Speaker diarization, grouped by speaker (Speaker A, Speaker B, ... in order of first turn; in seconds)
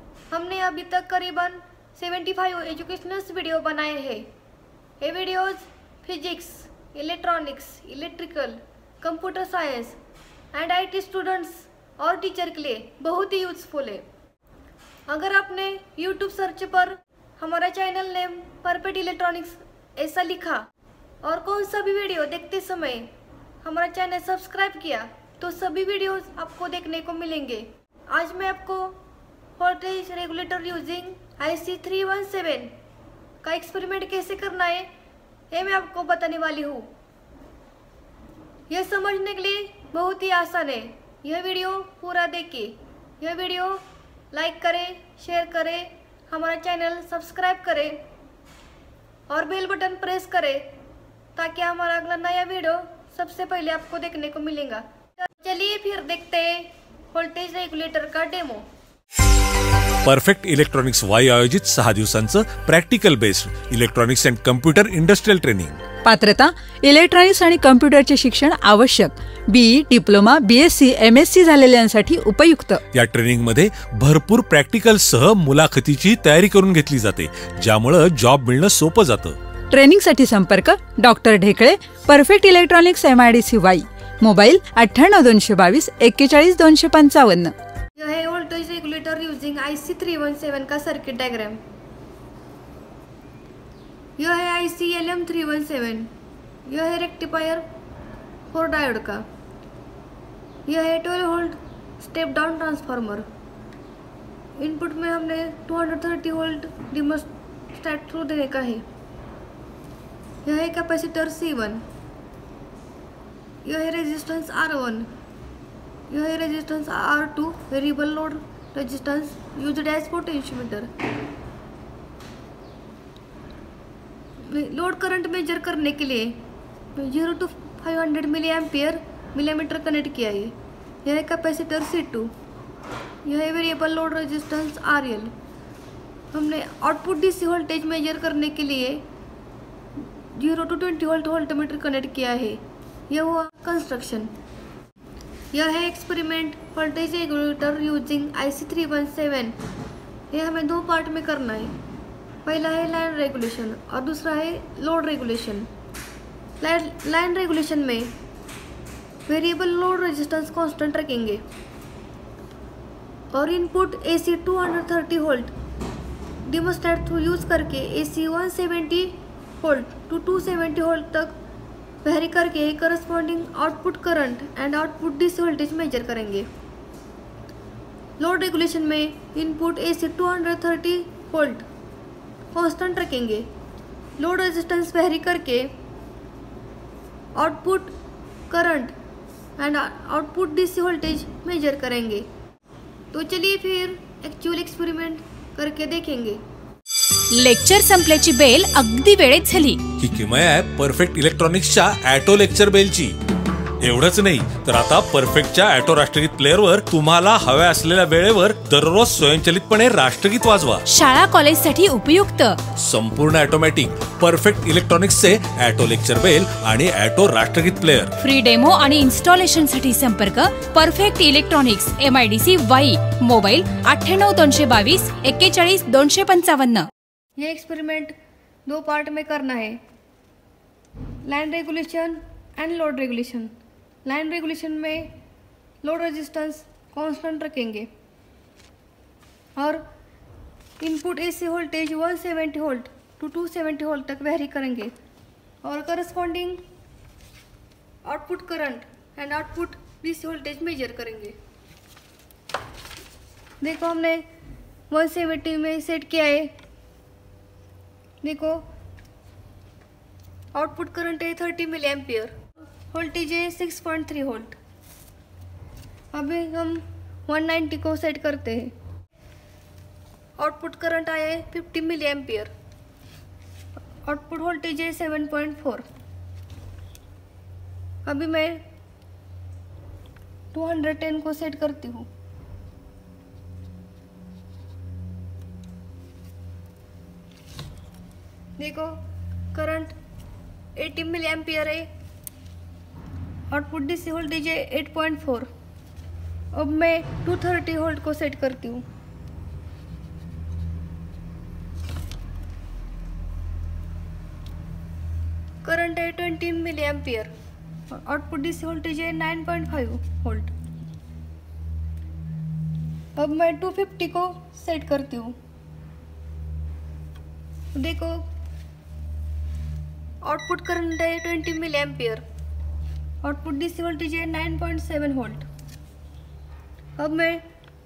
Speaker A: 0.3-4.3, 5.0-10.0, 10.5-14.0, 15.1-20.6, 21.2-23.1, 23.6-29.0, 29.6-32.7, 33.4-34.9, 35.5-36.9, 38.7-48.0, 49.3-50.7, 51.4-58.6, 88.0-91.6, 94.2-96.1, 96.7-97.6, 98.5-99.2, 100.7-103.3, 104.6-108.8, 110.4-111.8, 113.6-115.1, 116.1-120.9, 124.4-126.4, 126.9-132.3, 133.2-135.3, 136.3-139.0, 140.3-144.3, 145.5-149.6, 150.3-151.7, 152.4-155.7, 156.6-158.1, 159.3-161.4, 163.3-165.5, 166.4-171.4, 172.0-176.5, 178.2-181.7, 182.5-183.5, 184.2-185.7, 187.3-187.9, 188.5-188.9, 189.6-192.2, 193.1-196.4, 227.4-229.8, 231.2-233.5, 234.0-235.1, 235.8-237.9, 239.6-239.8, 240.8-244.9, 245.6-246.6, 248.0-251.3, 253.6-254.2, 254.9-256.5, 258.2-258.6, 260.5-262.3, 262.9-264.6, 266.1-268.7, 270.4-272.5, 274.0-275.8, 278.0-278.6, 280.5-282.1, 288.6-288.9, 289.5-289.9, 290.8-291.9, 293.5-295.5, 296.5-298.8, 305.6-307.3, 307.9-310.5, 313.1-315.4, 317.7-318.2, 320.2-322.2, 323.2-325.5, 327.0-327.4
Speaker B: 60.0-65.8, 72.9-79.3, 200.0-203.1, 203.8-210.8, 212.8-218.1
Speaker C: 66.0-72.8, 79.7-87.5
Speaker D: 197.3-199.8, 210.9-212.6, 218.2-226.9